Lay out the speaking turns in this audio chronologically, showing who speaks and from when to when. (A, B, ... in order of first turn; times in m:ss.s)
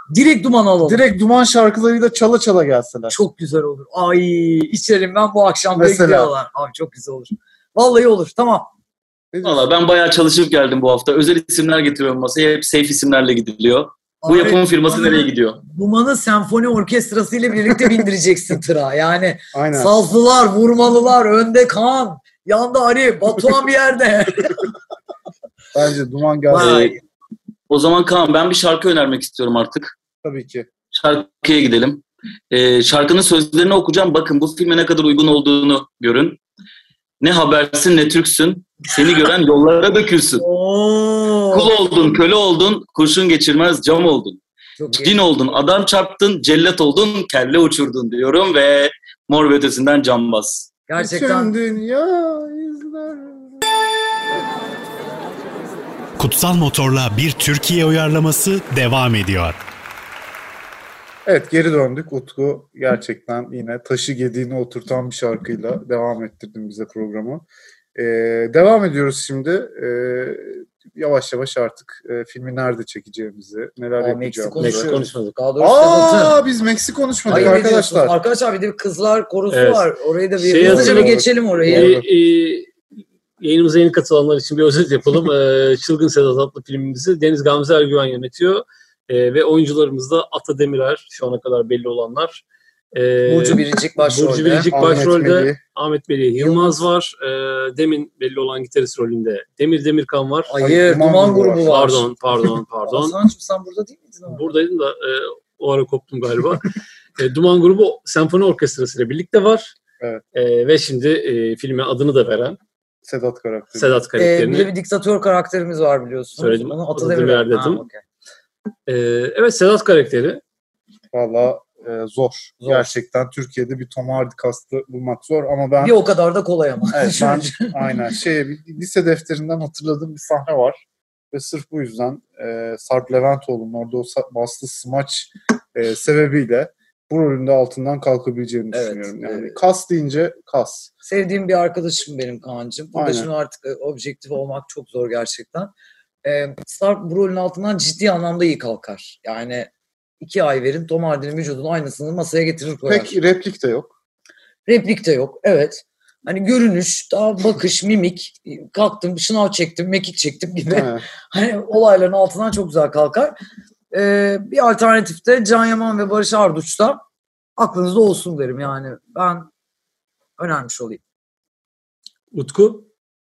0:00.1-0:01.0 A
0:00.8-0:03.1 B
0:03.1-0:08.7 A
0:05.7-0:06.3 B
0:09.3-0:09.7 B
0:09.4-0:15.6 C
0:14.2-0:24.7 A
0:19.5-0:20.0 B
0:25.7-0:26.9 B
0:26.5-0:27.0 A
0:26.6-0:26.9 C
0:27.7-0:29.9 C
0:30.2-0:30.7 B
0:30.9-0:36.4 C
0:37.2-0:40.4 C
0:40.4-0:41.7 A
0:41.5-0:44.4 C
0:44.8-0:45.2 A
0:44.9-0:50.7 C
0:50.9-0:51.6 A
0:51.0-0:53.6 B
0:56.2-0:59.6 D
1:01.3-1:14.9 B
1:14.0-1:16.4 A
1:14.6-1:15.3 E
1:15.6-1:18.2 B
1:17.3-1:22.0 A
1:19.5-1:22.7 E
1:20.6-1:22.1 B
1:23.4-1:32.4 E
1:32.9-1:40.5 E
1:33.3-1:34.7 A
1:34.7-1:35.6 B
1:36.4-1:36.8 A
1:40.5-1:42.1 A
1:40.6-1:42.0 B
1:41.6-1:43.2 E
1:42.8-1:44.6 A
1:44.3-1:49.7 E
1:50.3-1:52.6 E
1:53.0-1:54.0 B
1:53.8-1:54.7 E
1:54.2-1:58.0 A
1:56.4-1:57.8 E
1:58.9-2:00.4 E
2:01.1-2:06.0 B
2:02.6-2:02.9 A
2:05.8-2:07.7 A
2:06.9-2:20.9 B
2:18.7-2:19.6 A
2:21.0-2:25.7 A
2:23.0-2:23.3 B
2:26.2-2:29.7 A
2:30.2-2:33.2 A
2:32.9-2:33.9 B
2:34.7-2:43.4 A
2:40.7-2:41.0 B
2:43.9-2:47.0 A
2:47.6-2:49.5 A
2:50.4-2:51.0 A
2:52.3-2:52.9 E